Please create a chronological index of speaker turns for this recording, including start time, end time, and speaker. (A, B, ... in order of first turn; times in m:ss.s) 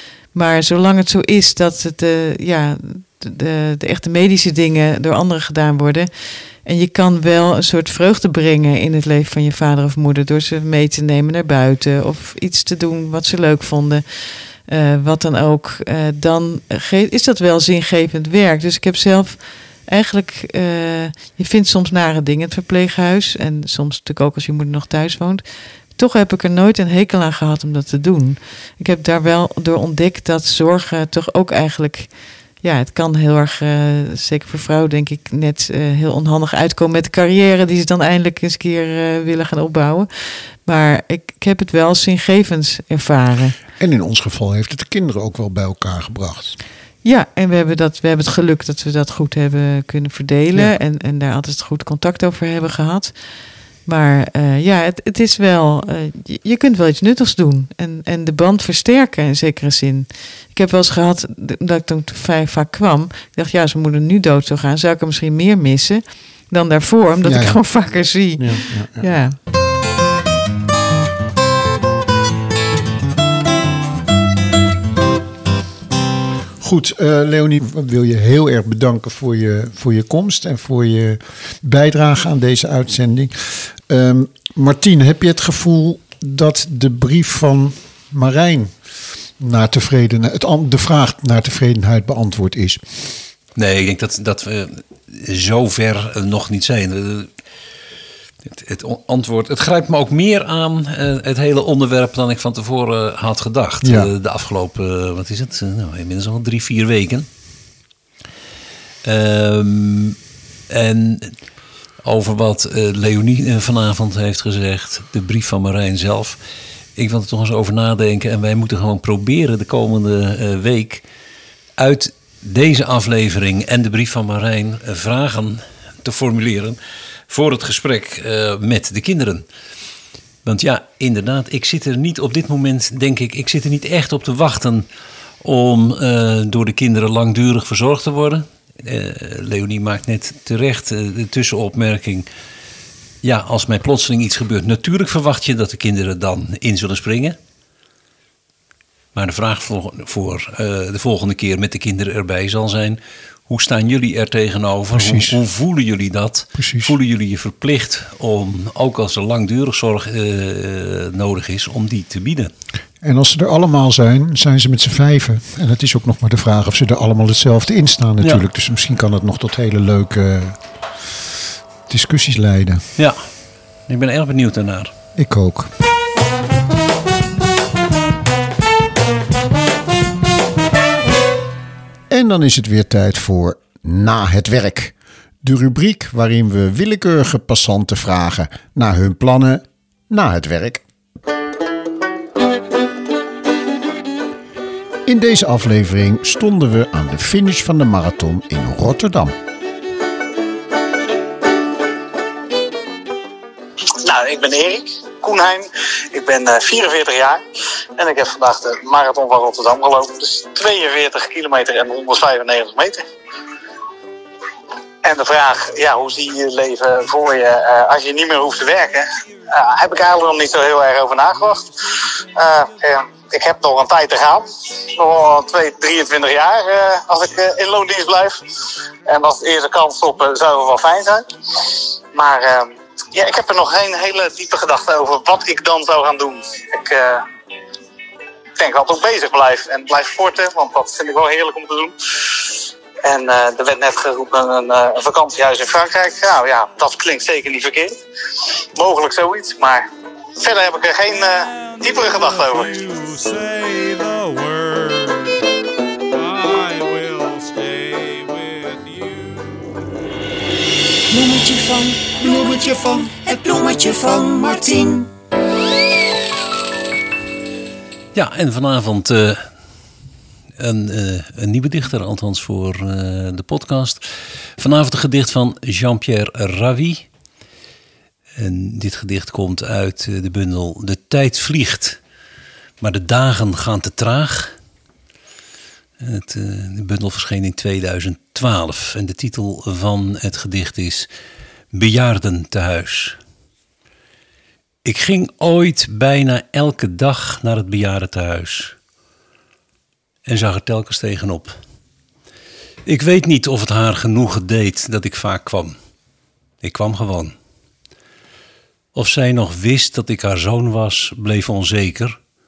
0:00.3-0:25.4 A
0:26.0-0:43.6 A
0:43.8-0:46.6 B
0:47.0-0:53.1 A
0:53.9-1:09.4 A
1:07.2-1:09.2 B
1:16.6-1:28.8 B
1:29.4-1:33.1 B
1:33.6-1:37.3 C
1:38.4-1:47.3 C
1:43.8-1:44.1 B
1:49.0-1:50.2 C
1:50.7-1:51.4 C
1:52.0-1:56.4 C
1:57.0-2:01.0 C
2:01.8-2:06.8 C
2:07.3-2:09.5 C
2:10.4-2:14.9 C
2:15.4-2:22.3 C
2:23.2-2:27.4 C
2:29.1-2:42.5 C
2:34.9-2:35.4 B
2:36.6-2:37.0 B
2:43.0-2:51.1 B
2:51.9-2:52.8 B
2:53.0-2:53.2 C
2:53.9-2:54.9 C
2:55.2-2:55.7 B
3:02.1-3:10.8 B
3:15.1-3:19.4 B
3:24.0-3:27.4 D
3:28.0-3:33.0 D
3:35.0-3:48.4 D
3:49.0-3:57.2 D
3:58.6-4:02.5 D
4:03.0-4:08.0 D
4:08.8-4:09.8 D
4:10.4-4:12.8 D
4:11.6-4:15.3 E
4:16.1-4:19.6 E
4:21.1-4:25.1 F
4:28.1-4:29.5 C
4:30.6-4:34.0 C
4:34.6-4:37.1 C
4:38.4-4:42.0 C
4:42.8-4:44.5 C
4:46.0-4:51.1 C
4:51.7-4:53.2 C
4:54.8-4:58.8 C
5:00.3-5:01.6 C
5:02.9-5:05.8 C
5:06.6-5:07.4 C
5:08.9-5:12.2 C